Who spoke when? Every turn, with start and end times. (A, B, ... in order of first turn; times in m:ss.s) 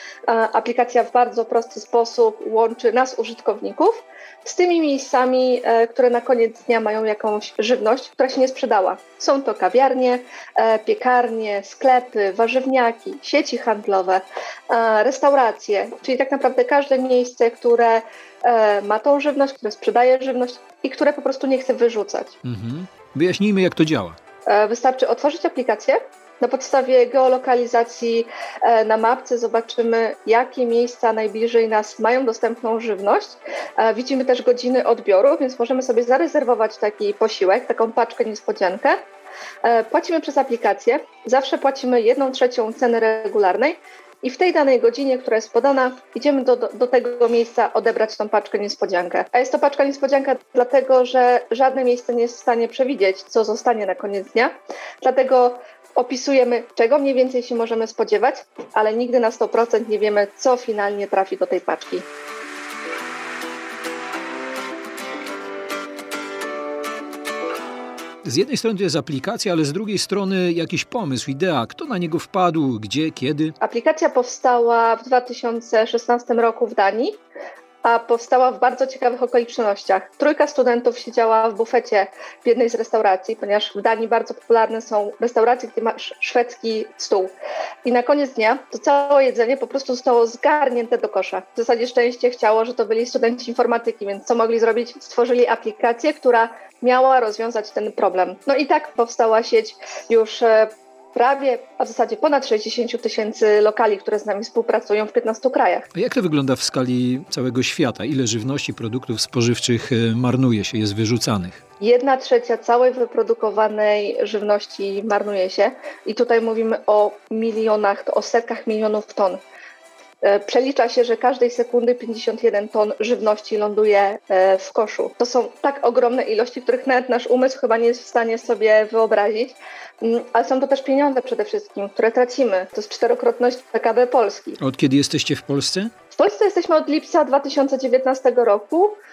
0:00.3-0:22.4 A
0:22.4-0:24.2 B
0:24.5-0:39.0 A
0:39.6-1:02.0 A
1:08.2-1:13.5 B
1:13.6-1:17.2 A
1:17.8-1:45.9 A
1:45.9-1:51.6 B
1:51.8-1:59.4 A
2:00.2-2:14.6 A
2:14.6-2:15.9 B
2:16.1-2:19.0 A